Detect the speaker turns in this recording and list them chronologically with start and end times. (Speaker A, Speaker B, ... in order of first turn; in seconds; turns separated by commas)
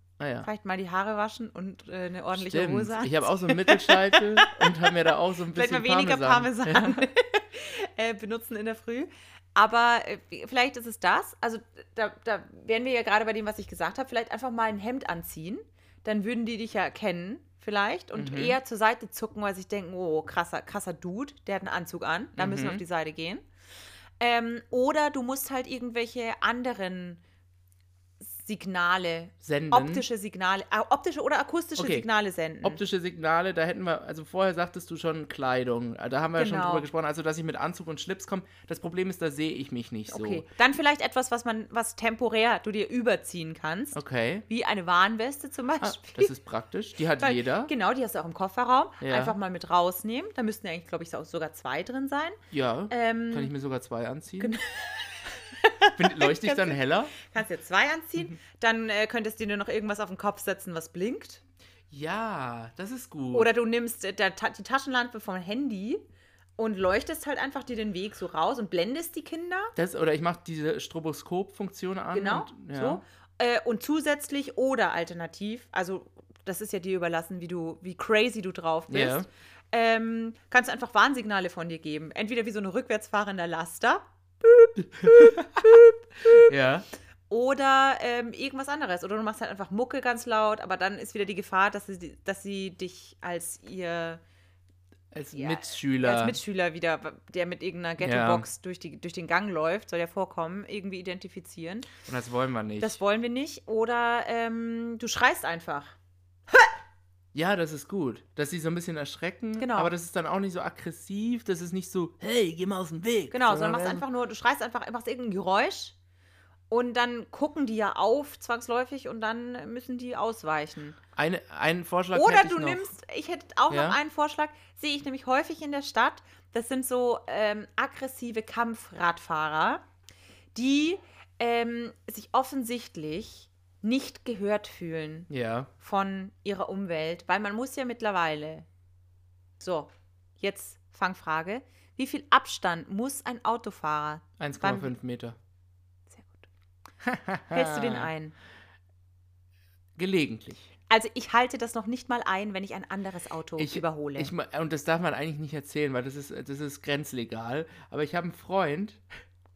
Speaker A: 0.2-0.5, Speaker B: 0.4-4.9, Speaker A: 2.3-7.0, Speaker B: 5.5-23.5, Speaker A: 18.1-18.6, Speaker A: 22.4-22.8, Speaker B: 24.2-27.2, Speaker B: 28.2-32.8, Speaker A: 29.4-30.0, Speaker A: 31.8-32.1, Speaker A: 32.6-40.5, Speaker B: 36.4-36.9, Speaker B: 40.1-46.3, Speaker A: 43.9-44.5, Speaker A: 45.8-47.7, Speaker B: 47.2-53.5, Speaker A: 49.0-49.3, Speaker A: 52.5-54.6, Speaker B: 54.4-61.4, Speaker A: 55.9-57.1, Speaker A: 61.9-63.5, Speaker B: 63.3-66.0, Speaker B: 66.6-69.7, Speaker A: 69.7-73.0, Speaker B: 72.1-86.5, Speaker A: 78.9-79.3, Speaker A: 84.8-86.8, Speaker B: 87.3-94.2, Speaker A: 95.1-96.4, Speaker B: 95.3-101.9, Speaker A: 98.0-98.4, Speaker A: 102.0-103.0, Speaker B: 102.8-105.9, Speaker A: 107.3-114.0, Speaker B: 109.6-109.9, Speaker B: 113.3-116.0, Speaker B: 116.7-121.0, Speaker A: 121.2-122.9, Speaker B: 122.1-129.8, Speaker A: 123.7-124.0, Speaker B: 130.5-135.3, Speaker A: 135.3-135.7, Speaker B: 135.8-138.7, Speaker B: 139.6-144.9, Speaker A: 144.4-145.3, Speaker B: 146.1-146.5, Speaker A: 147.0-148.1, Speaker B: 147.5-148.3, Speaker A: 150.0-150.7, Speaker B: 150.9-154.3, Speaker A: 153.6-159.0